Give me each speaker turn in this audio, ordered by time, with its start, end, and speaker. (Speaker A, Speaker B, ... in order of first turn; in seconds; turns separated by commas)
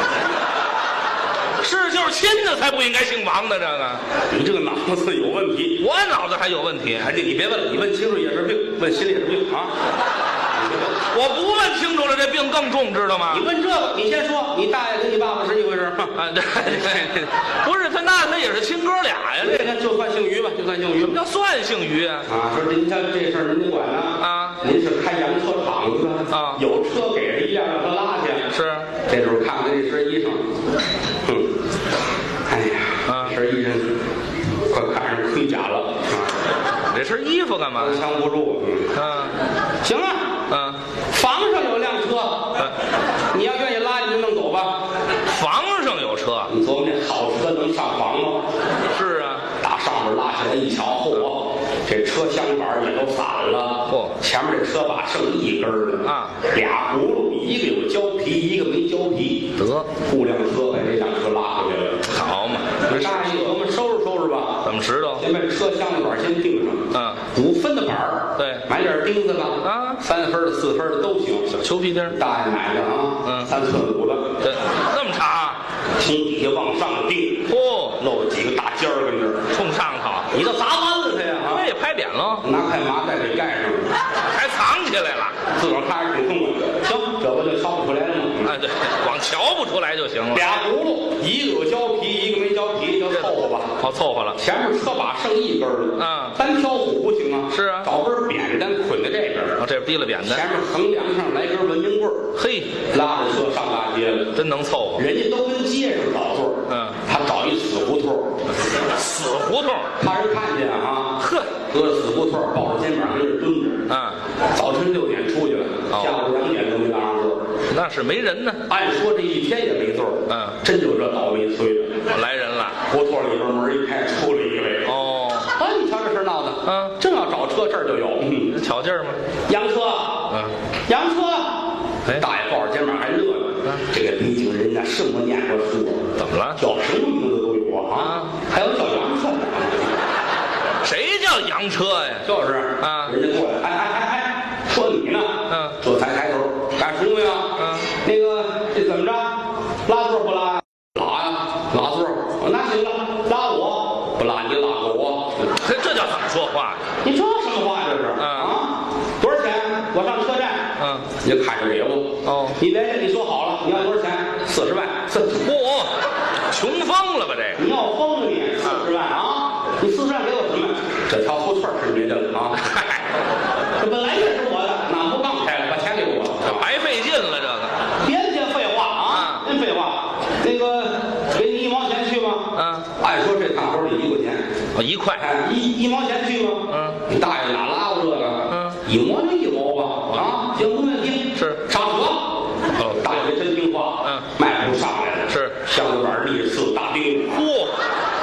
Speaker A: 1.6-4.0, Speaker B: 4.3-5.8, Speaker A: 5.8-7.1, Speaker B: 7.0-9.7, Speaker B: 10.6-11.0, Speaker A: 11.1-13.4, Speaker B: 13.3-17.1, Speaker A: 16.1-19.7, Speaker B: 19.4-21.2, Speaker A: 21.0-22.3, Speaker B: 22.3-28.5, Speaker A: 24.2-24.6, Speaker A: 26.3-26.6, Speaker A: 28.5-28.9, Speaker B: 29.1-30.4, Speaker B: 32.5-33.9, Speaker A: 33.1-33.4, Speaker B: 34.7-36.4, Speaker A: 36.9-38.0, Speaker B: 37.8-38.9, Speaker A: 38.9-39.4, Speaker B: 39.8-40.3, Speaker A: 40.5-40.8, Speaker B: 41.1-42.5, Speaker B: 43.3-44.8, Speaker A: 45.3-46.5, Speaker B: 46.5-48.5, Speaker A: 48.9-49.5, Speaker B: 49.6-62.0, Speaker A: 53.9-54.2, Speaker A: 56.0-56.4, Speaker A: 59.6-59.9, Speaker A: 62.1-63.6, Speaker B: 62.9-64.6, Speaker A: 64.6-65.2, Speaker B: 65.2-71.5, Speaker A: 66.9-67.2, Speaker A: 68.4-68.7, Speaker A: 69.6-70.0, Speaker A: 71.5-72.2, Speaker B: 72.1-74.3, Speaker A: 73.2-73.5, Speaker A: 74.4-75.6, Speaker B: 76.0-79.5, Speaker A: 77.5-78.0, Speaker A: 79.5-80.3, Speaker B: 80.3-81.7, Speaker A: 81.5-82.5, Speaker B: 82.4-83.9, Speaker A: 84.3-85.4, Speaker B: 85.5-88.6, Speaker A: 88.5-90.5, Speaker B: 90.3-93.8, Speaker A: 93.1-94.4, Speaker B: 94.3-99.6, Speaker A: 96.0-96.4, Speaker A: 97.5-97.9, Speaker A: 99.6-100.5, Speaker B: 100.2-102.3, Speaker A: 102.3-102.7, Speaker B: 102.9-104.3, Speaker A: 104.3-105.0, Speaker B: 105.0-108.4, Speaker A: 106.7-107.0, Speaker A: 108.8-109.9, Speaker B: 110.0-113.8, Speaker A: 111.2-111.5, Speaker A: 113.9-114.2, Speaker B: 114.5-117.5, Speaker A: 115.9-116.3, Speaker A: 117.7-118.6, Speaker B: 118.7-122.0, Speaker A: 120.3-120.6, Speaker A: 122.1-122.8, Speaker B: 122.9-124.9, Speaker A: 124.8-125.5, Speaker B: 125.5-128.6, Speaker A: 126.7-127.0, Speaker A: 128.5-129.2, Speaker B: 129.5-130.3, Speaker B: 130.9-139.9, Speaker A: 136.2-136.6, Speaker A: 138.0-138.3, Speaker A: 140.8-142.3, Speaker B: 142.2-155.5, Speaker A: 142.8-143.1, Speaker A: 145.5-145.8, Speaker A: 147.6-147.9, Speaker A: 155.5-156.9, Speaker B: 157.0-165.4, Speaker A: 158.2-158.6, Speaker A: 160.8-161.1, Speaker A: 162.2-162.6, Speaker A: 165.3-165.9, Speaker A: 166.5-167.6, Speaker B: 167.6-172.6, Speaker A: 172.6-173.1, Speaker B: 173.8-176.7, Speaker A: 176.4-177.8, Speaker B: 178.0-184.4, Speaker A: 179.1-179.5, Speaker A: 182.6-182.9, Speaker A: 184.8-185.3, Speaker B: 185.2-197.4, Speaker A: 186.7-187.0, Speaker A: 188.5-188.8, Speaker A: 191.3-191.6, Speaker A: 195.3-195.6, Speaker A: 197.3-197.8